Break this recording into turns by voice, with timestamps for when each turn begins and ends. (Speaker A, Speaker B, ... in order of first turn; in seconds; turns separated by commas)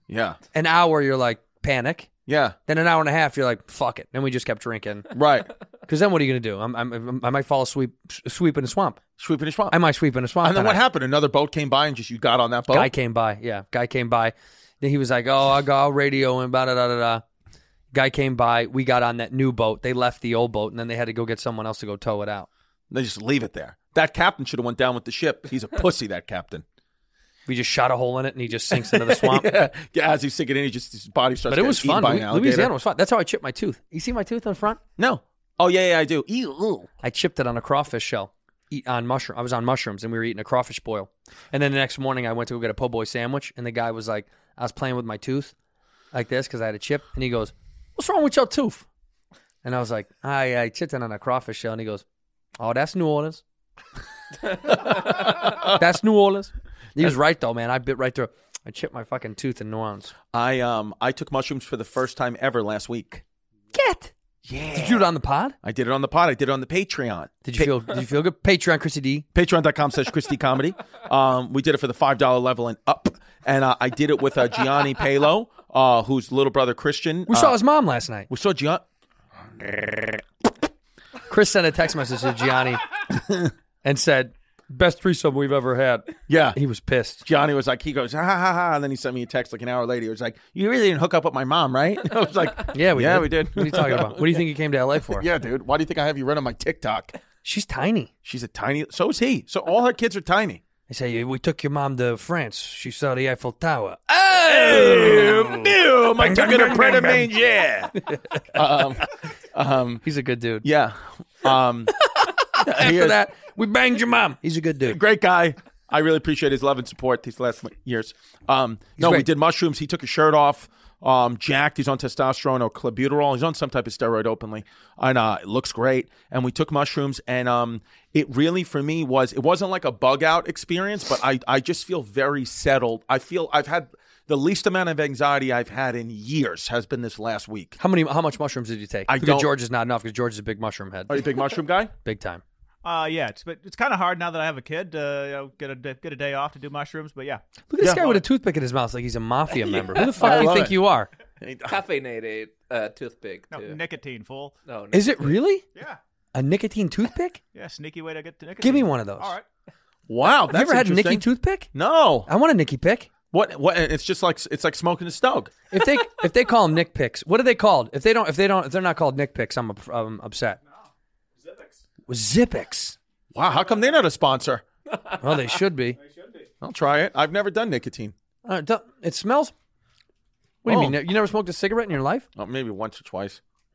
Speaker A: 0.1-0.4, Speaker B: 0.5-2.1, Speaker A: 2.3-2.6, Speaker B: 2.7-5.1, Speaker A: 5.1-5.5, Speaker B: 5.9-9.0, Speaker A: 9.2-9.8, Speaker B: 9.7-10.8, Speaker A: 10.4-12.9, Speaker B: 12.7-17.2, Speaker B: 17.9-22.5, Speaker A: 22.9-26.6, Speaker B: 27.5-29.5, Speaker A: 28.7-32.7, Speaker B: 31.5-34.8, Speaker A: 35.0-36.9, Speaker B: 37.0-45.5, Speaker B: 46.1-48.9, Speaker B: 49.6-52.0, Speaker B: 52.6-53.4, Speaker B: 55.2-60.1, Speaker A: 55.5-55.7, Speaker A: 60.3-63.2, Speaker B: 63.7-64.1, Speaker A: 64.5-65.1, Speaker B: 64.8-65.5, Speaker A: 65.6-67.8, Speaker B: 67.5-69.2, Speaker A: 69.3-77.6, Speaker B: 77.3-78.3, Speaker A: 78.3-78.8, Speaker A: 79.6-80.2, Speaker B: 81.3-82.8, Speaker A: 83.2-83.5, Speaker B: 83.8-87.2, Speaker A: 86.3-86.6, Speaker A: 87.2-94.4, Speaker B: 92.7-95.3, Speaker A: 95.1-97.1, Speaker B: 97.5-98.1, Speaker A: 98.2-100.6, Speaker B: 100.9-105.6, Speaker A: 104.1-108.0, Speaker B: 106.2-107.3, Speaker B: 108.0-108.4, Speaker A: 108.5-110.0, Speaker B: 110.0-110.7, Speaker A: 110.6-111.9, Speaker B: 112.4-115.0, Speaker A: 112.6-113.2, Speaker A: 114.9-137.8, Speaker B: 119.0-119.3, Speaker B: 137.8-141.2, Speaker A: 139.1-139.5, Speaker A: 141.1-141.9, Speaker B: 142.0-142.4, Speaker C: 142.8-148.2, Speaker B: 147.7-151.1, Speaker A: 147.8-148.1, Speaker A: 149.9-150.8, Speaker A: 151.4-151.8, Speaker D: 151.7-153.8, Speaker C: 153.5-154.5, Speaker D: 154.7-155.4, Speaker B: 154.9-155.6, Speaker B: 156.3-157.4, Speaker C: 157.5-159.4, Speaker B: 158.6-159.3, Speaker A: 160.1-162.3, Speaker B: 160.5-161.7, Speaker B: 162.3-163.1, Speaker A: 163.3-165.5, Speaker B: 165.7-170.6, Speaker C: 171.4-171.8, Speaker B: 172.1-173.0, Speaker A: 173.3-174.6, Speaker C: 173.5-173.9, Speaker B: 175.2-176.0, Speaker C: 175.9-176.5, Speaker A: 176.6-178.1, Speaker B: 178.4-179.5, Speaker B: 180.6-182.3, Speaker A: 180.7-181.0, Speaker A: 182.4-183.4